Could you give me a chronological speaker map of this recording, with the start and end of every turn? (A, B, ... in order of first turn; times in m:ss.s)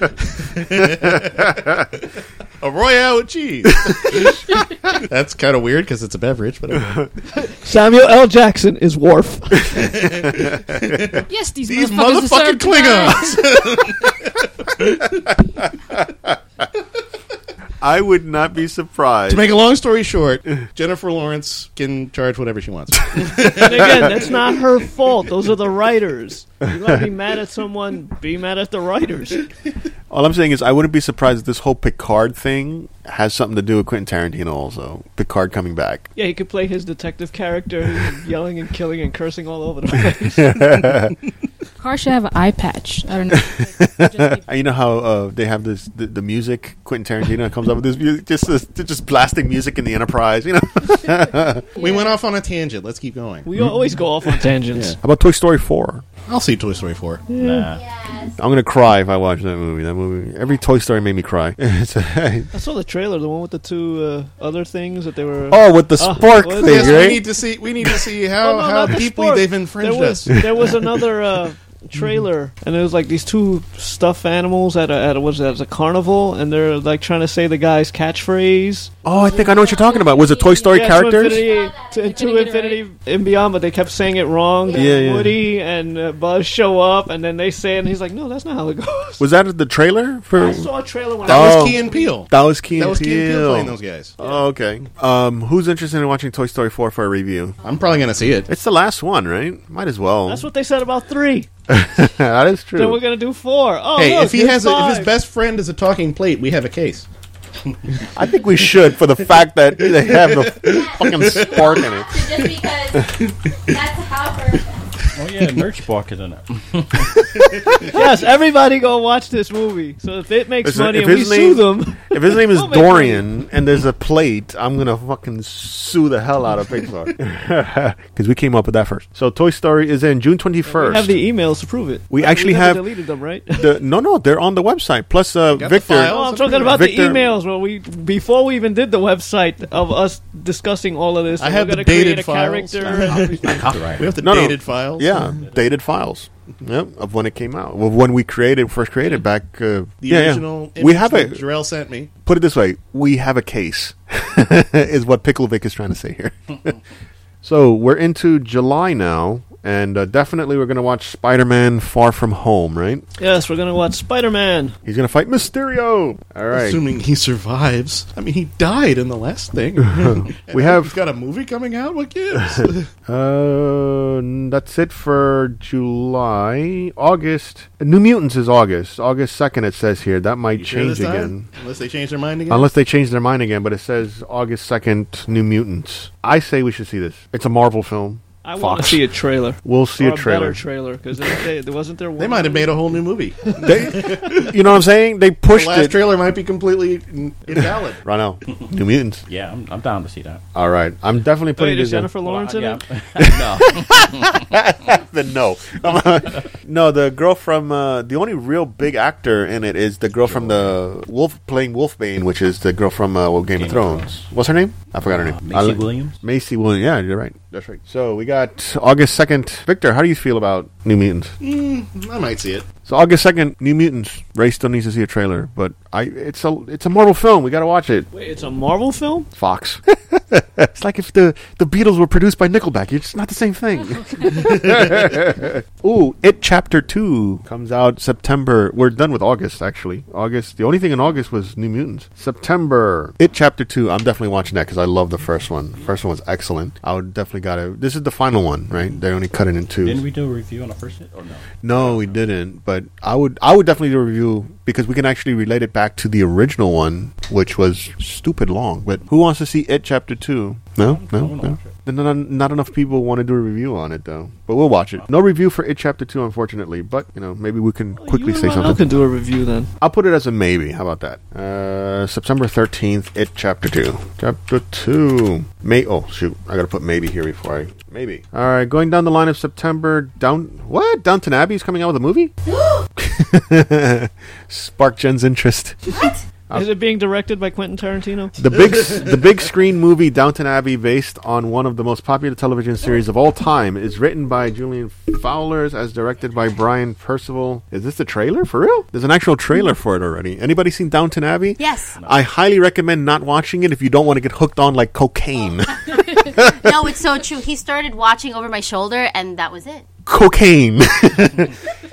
0:00.4-0:02.0 A
0:02.6-0:07.0 A
0:03.7-0:04.3 B
0:06.8-0:07.1 B
0:07.4-0:09.9 C
0:09.7-0:15.3 A
0:11.2-0:13.8 D
0:15.9-0:16.3 B
0:17.8-0:19.6 B
0:19.3-0:24.5 A
0:23.4-0:29.5 C
0:30.1-0:36.1 B
0:36.2-0:40.8 C
0:40.2-0:41.2 B
0:41.8-0:44.4 D
0:43.3-0:51.8 B
0:51.8-0:53.5 A
0:51.8-0:52.2 D
0:53.4-0:55.0 C
0:54.7-0:55.0 A
0:55.0-0:56.0 B
0:56.3-0:57.2 A
0:57.3-0:57.8 C
0:57.4-0:57.8 E
0:57.8-0:58.3 F
0:58.4-1:02.5 B
1:02.5-1:07.2 C
1:05.5-1:07.2 B
1:06.6-1:10.4 A
1:08.4-1:18.9 C
1:19.0-1:21.5 B
1:19.1-1:20.9 D
1:20.6-1:29.3 C
1:21.6-1:22.8 D
1:24.7-1:25.4 B
1:29.2-1:30.7 B
1:30.3-1:32.1 C
1:31.2-1:34.2 A
1:31.2-1:37.6 B
1:34.2-1:34.4 C
1:37.6-1:38.5 A
1:38.5-1:40.5 B
1:40.2-1:41.5 C
1:41.7-1:43.0 B
1:42.8-1:45.1 C
1:44.0-1:47.0 A
1:48.1-1:52.2 B
1:49.8-1:52.6 A
1:51.4-1:53.1 F
1:53.7-1:54.6 F
1:55.1-1:57.3 E
1:57.4-1:58.0 A
1:57.8-2:03.2 C
2:00.6-2:11.2 B
2:10.6-2:13.7 C
2:12.1-2:12.8 B
2:13.5-2:17.3 B
2:15.5-2:16.9 A
2:16.0-2:23.6 C
2:21.4-2:25.2 A
2:22.8-2:24.2 E
2:24.2-2:31.4 B
2:25.3-2:25.6 E
2:30.0-2:32.1 A
2:32.2-2:36.8 B
2:37.4-2:43.0 B
2:43.2-2:44.8 C
2:44.8-2:46.8 B
2:46.5-2:52.9 A
2:49.9-2:51.0 B
2:52.4-3:01.5 B
3:00.6-3:02.7 A
3:02.5-3:09.0 B
3:08.4-3:12.8 C
3:09.6-3:10.6 B
3:12.2-3:14.5 A
3:13.6-3:16.0 B
3:15.5-3:18.0 A
3:17.5-3:19.2 B
3:19.3-3:20.4 E
3:20.5-3:22.1 B
3:21.6-3:22.8 C
3:22.2-3:24.4 E
3:23.2-3:41.3 B
3:30.2-3:30.8 E
3:33.5-3:34.3 E
3:35.0-3:36.2 E
3:41.4-3:42.7 A
3:42.8-3:48.1 B
3:48.1-3:49.3 C
3:49.3-4:10.0 B
4:09.8-4:12.1 E
4:11.6-4:28.9 B
4:20.8-4:21.7 E
4:28.0-4:29.7 C
4:29.8-4:42.3 B
4:42.5-4:42.8 F
4:43.0-4:46.7 B
4:46.5-4:48.4 C
4:48.4-5:06.6 B
5:01.6-5:02.0 F
5:01.9-5:02.2 E
5:06.4-5:09.9 F
5:10.0-5:11.5 B